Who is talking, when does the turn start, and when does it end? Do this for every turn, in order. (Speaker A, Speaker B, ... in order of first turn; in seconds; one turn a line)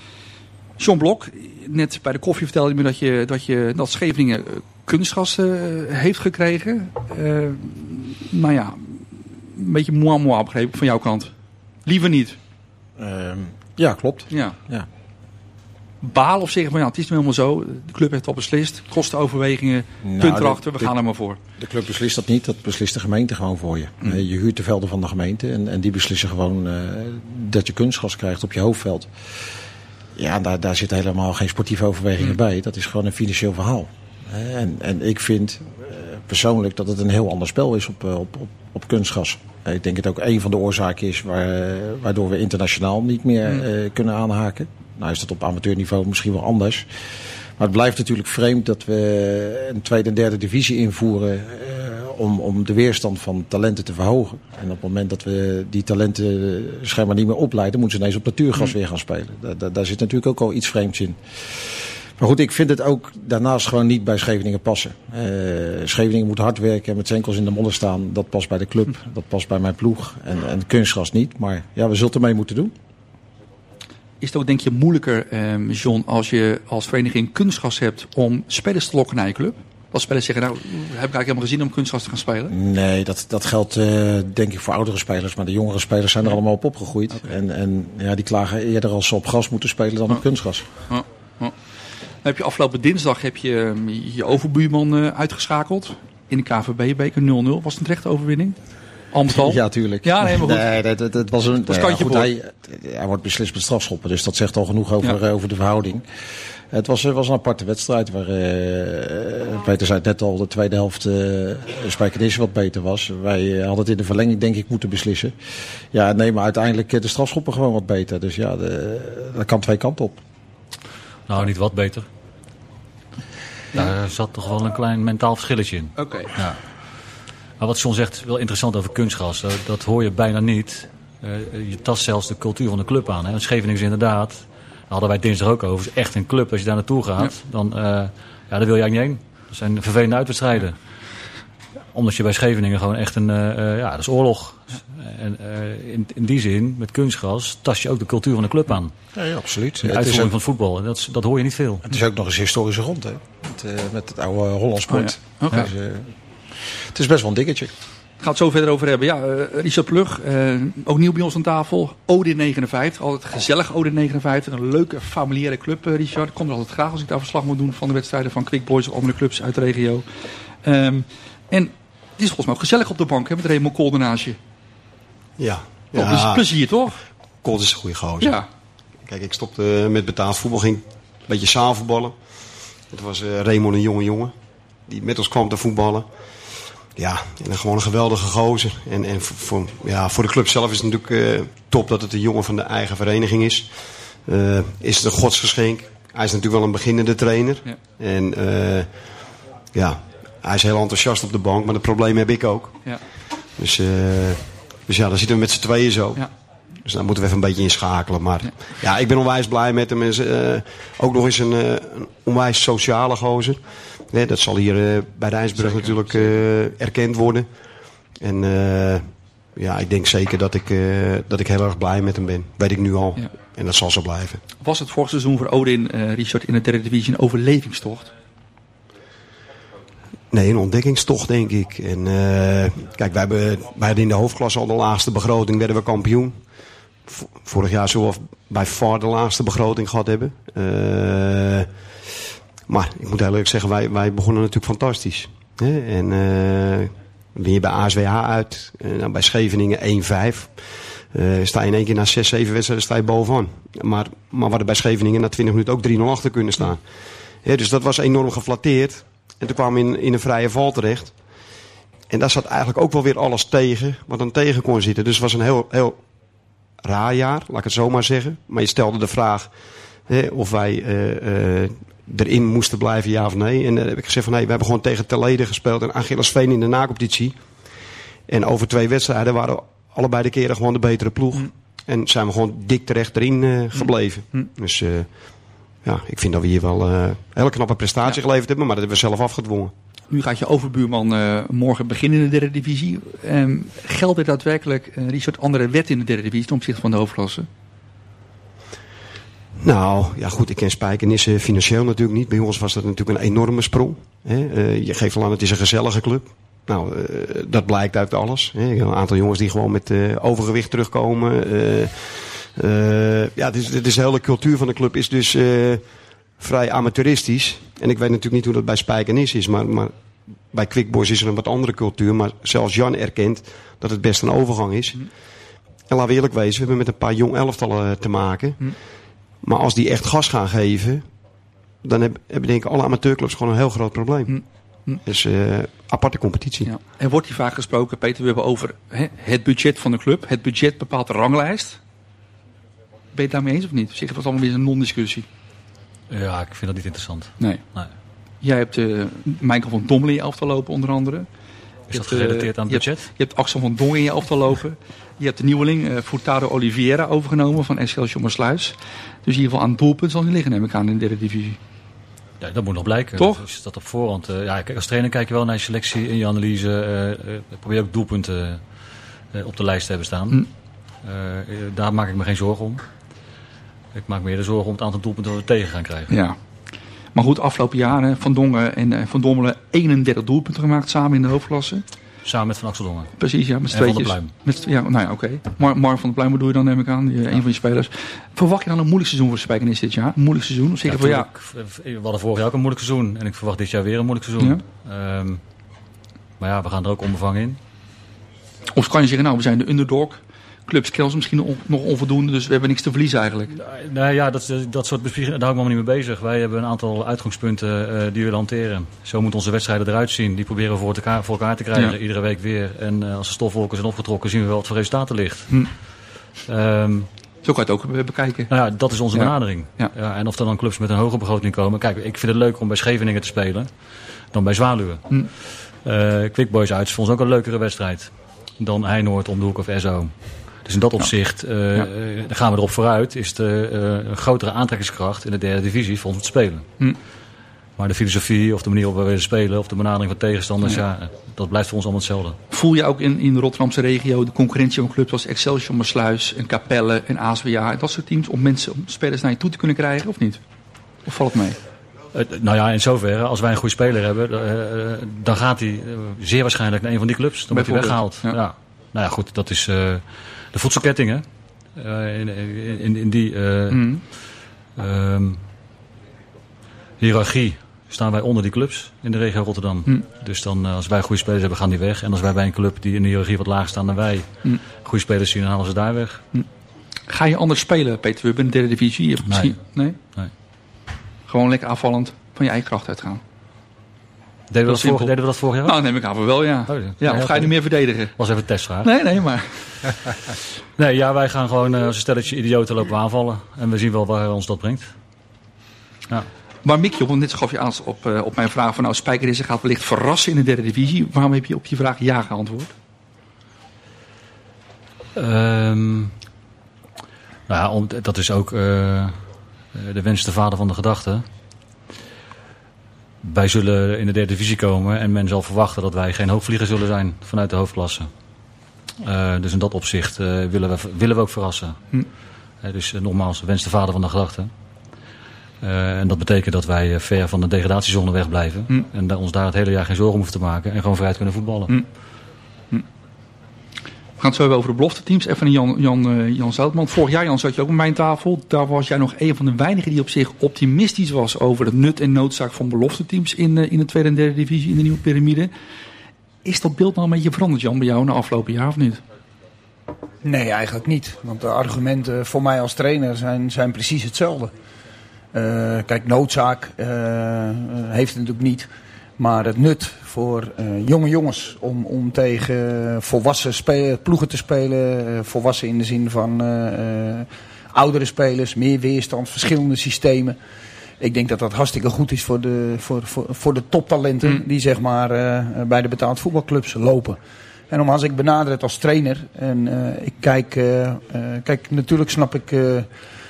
Speaker A: 0.8-11.3
Speaker A: 11.9-12.4
Speaker B: 13.0-14.9
Speaker A: 14.3-14.6
Speaker A: 16.0-21.4
Speaker B: 20.0-20.9
Speaker B: 21.6-29.1
Speaker B: 30.2-46.9
Speaker B: 47.6-72.7
Speaker A: 74.2-82.5
Speaker B: 82.5-90.7
Speaker A: 90.9-91.5
Speaker A: 92.2-98.6
Speaker A: 99.1-100.7
Speaker B: 99.3-106.0
Speaker A: 101.7-102.3
Speaker B: 106.7-115.3
Speaker B: 115.9-120.2
Speaker C: 121.3-122.1
Speaker C: 123.7-126.6
Speaker C: 127.6-140.8
Speaker C: 141.9-148.9
Speaker B: 149.1-150.3
Speaker C: 149.8-151.8
Speaker B: 151.8-157.7
Speaker A: 154.9-155.7
Speaker A: 158.2-170.1
Speaker A: 170.6-174.4
Speaker D: 175.4-176.5
Speaker A: 175.9-177.0
Speaker D: 177.4-178.4
Speaker A: 178.2-178.5
Speaker D: 179.0-182.2
Speaker D: 182.9-184.3
Speaker D: 184.9-186.1
Speaker D: 186.9-217.6
Speaker A: 215.6-216.4
Speaker D: 218.1-224.4
Speaker A: 224.6-228.1
Speaker D: 230.3-236.5
Speaker D: 237.1-241.8
Speaker D: 242.7-261.2
Speaker D: 262.1-266.0
Speaker D: 266.8-269.5
Speaker D: 270.1-277.4
Speaker D: 278.3-289.7
Speaker A: 283.8-284.5
Speaker A: 290.1-297.5
Speaker D: 299.6-319.9
Speaker D: 320.4-325.1
Speaker D: 325.9-328.8
Speaker D: 329.4-331.1
Speaker D: 331.8-334.4
Speaker A: 334.3-335.0
Speaker D: 335.0-336.7
Speaker A: 336.6-341.8
Speaker A: 343.1-345.3
Speaker C: 346.1-347.9
Speaker A: 348.4-351.3
Speaker C: 351.9-353.1
Speaker A: 351.9-361.6
Speaker C: 362.4-368.6
Speaker A: 363.2-363.4
Speaker C: 369.3-370.5
Speaker C: 371.0-372.9
Speaker C: 373.9-376.1
Speaker A: 376.1-376.4
Speaker A: 377.1-381.8
Speaker C: 382.2-384.3
Speaker A: 383.2-391.3
Speaker C: 390.9-395.4
Speaker C: 396.4-397.6
Speaker A: 398.7-403.5
Speaker C: 403.5-415.8
Speaker C: 416.5-417.1
Speaker A: 417.4-418.5
Speaker C: 418.5-423.7
Speaker A: 419.1-419.9
Speaker C: 424.3-436.7
Speaker C: 437.8-442.4
Speaker A: 442.5-450.4
Speaker A: 451.1-451.6
Speaker C: 452.1-464.1
Speaker A: 457.5-458.4
Speaker A: 463.7-464.0
Speaker C: 464.8-465.4
Speaker C: 467.0-476.2
Speaker A: 477.1-480.0
Speaker C: 479.3-479.6
Speaker A: 481.3-483.2
Speaker C: 484.5-486.0
Speaker A: 484.7-488.1
Speaker C: 486.7-489.0
Speaker A: 488.8-489.9
Speaker C: 490.8-494.9
Speaker A: 496.6-502.7
Speaker C: 505.1-506.1
Speaker C: 507.5-509.2
Speaker C: 509.7-511.2
Speaker C: 513.2-518.1
Speaker C: 519.0-521.8
Speaker C: 522.6-524.5
Speaker C: 525.6-531.8
Speaker A: 534.2-545.5
Speaker A: 546.5-549.0
Speaker E: 550.2-554.5
Speaker E: 555.3-570.4
Speaker E: 571.0-577.2
Speaker E: 577.7-582.9